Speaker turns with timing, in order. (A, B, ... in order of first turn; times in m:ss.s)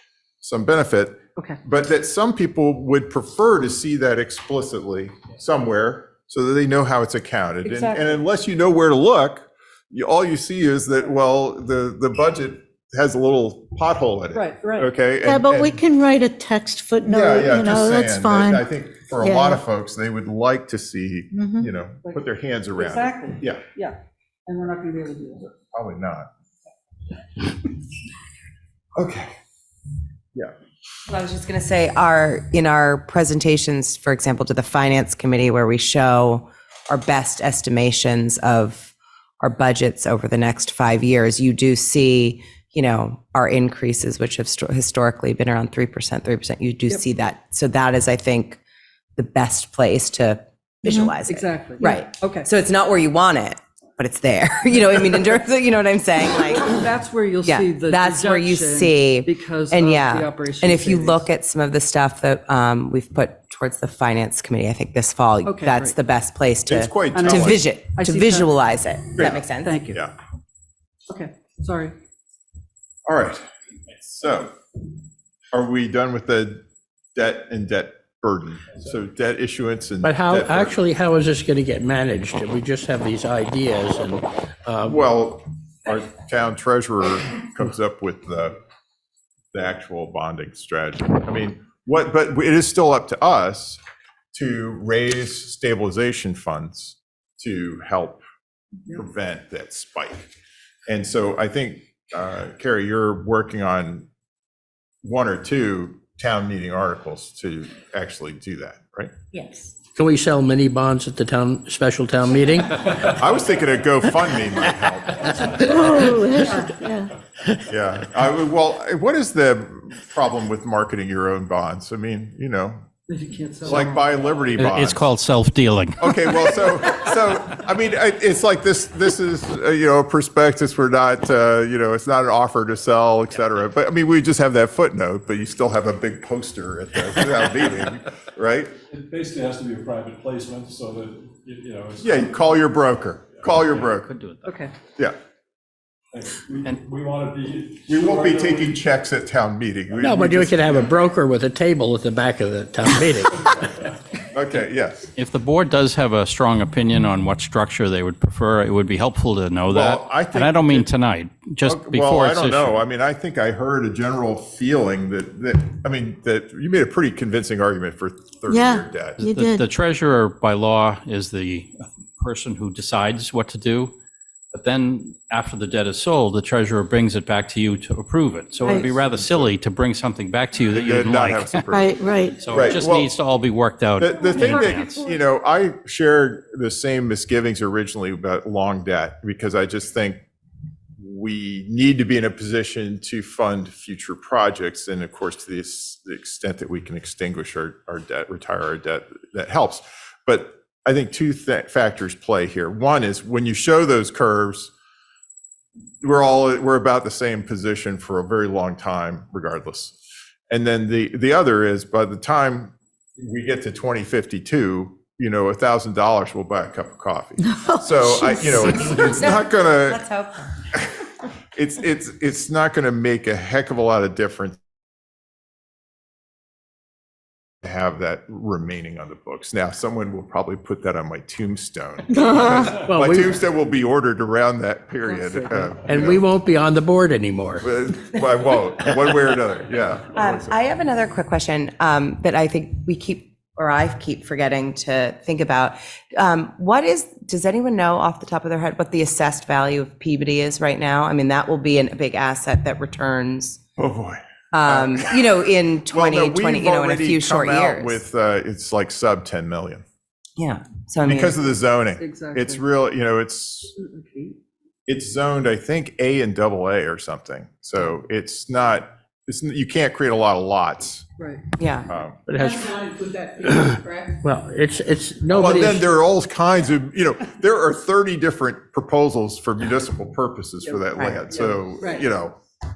0:00.4-0:15.8 A
0:07.6-0:08.2 B
0:14.3-0:14.9 B
0:15.2-0:18.7 C
0:17.0-0:23.6 A
0:19.2-0:19.6 C
0:21.3-0:21.7 C
0:22.8-0:25.5 B
0:25.6-0:26.3 A
0:29.0-0:29.3 A
0:31.1-0:48.6 D
0:49.2-0:56.9 D
0:50.9-0:51.1 C
0:51.2-0:52.5 B
0:56.4-1:01.3 B
0:57.4-1:09.8 D
1:05.4-1:06.0 B
1:06.7-1:07.7 A
1:07.1-1:08.6 B
1:09.2-1:10.1 A
1:09.6-1:10.0 B
1:11.1-1:12.0 B
1:13.1-1:13.5 A
1:14.0-1:14.6 A
1:15.5-1:16.6 A
1:17.2-1:20.8 A
1:20.0-1:25.0 E
1:24.9-1:28.6 A
1:29.5-1:33.8 A
1:34.3-1:38.2 A
1:38.9-1:40.3 A
1:40.9-1:44.1 A
1:45.0-1:49.1 A
1:49.3-1:49.7 D
1:50.0-1:52.8 E
1:53.1-1:55.9 A
1:55.6-1:57.1 C
1:57.7-2:02.8 A
2:03.1-2:04.1 B
2:03.6-2:05.1 A
2:04.6-2:06.7 F
2:06.0-2:18.8 A
2:18.9-2:22.6 G
2:22.0-2:24.1 A
2:23.6-2:24.6 F
2:24.4-2:24.7 B
2:26.1-2:28.8 G
2:27.9-2:30.9 A
2:30.0-2:33.8 E
2:34.3-2:35.1 A
2:35.2-2:42.8 F
2:39.7-2:40.9 A
2:41.6-2:49.2 A
2:48.5-2:49.7 C
2:49.2-2:54.0 F
2:54.5-3:01.6 F
2:58.7-2:59.5 A
3:00.7-3:03.1 A
3:01.7-3:02.4 C
3:02.4-3:05.0 F
3:04.0-3:10.2 A
3:11.0-3:24.7 A
3:26.0-3:30.0 A
3:30.5-3:40.0 A
3:37.6-3:38.5 C
3:38.7-3:40.5 D
3:40.7-3:44.6 A
3:47.6-3:56.2 A
3:52.2-3:52.6 C
3:52.7-3:53.4 E
3:55.0-3:55.8 B
3:55.9-3:57.7 E
3:57.6-4:00.6 A
4:00.1-4:13.6 D
4:13.8-4:15.2 A
4:14.5-4:18.0 D
4:15.9-4:19.8 A
4:20.4-4:21.4 D
4:21.0-4:23.7 A
4:22.0-4:22.6 B
4:23.8-4:24.4 B
4:24.9-4:31.1 A
4:31.2-4:31.4 B
4:31.6-4:31.9 D
4:31.9-4:32.2 A
4:32.3-4:32.9 E
4:32.8-4:33.3 B
4:33.4-4:35.9 E
4:35.3-4:42.4 A
4:41.0-4:41.2 D
4:41.3-4:42.0 B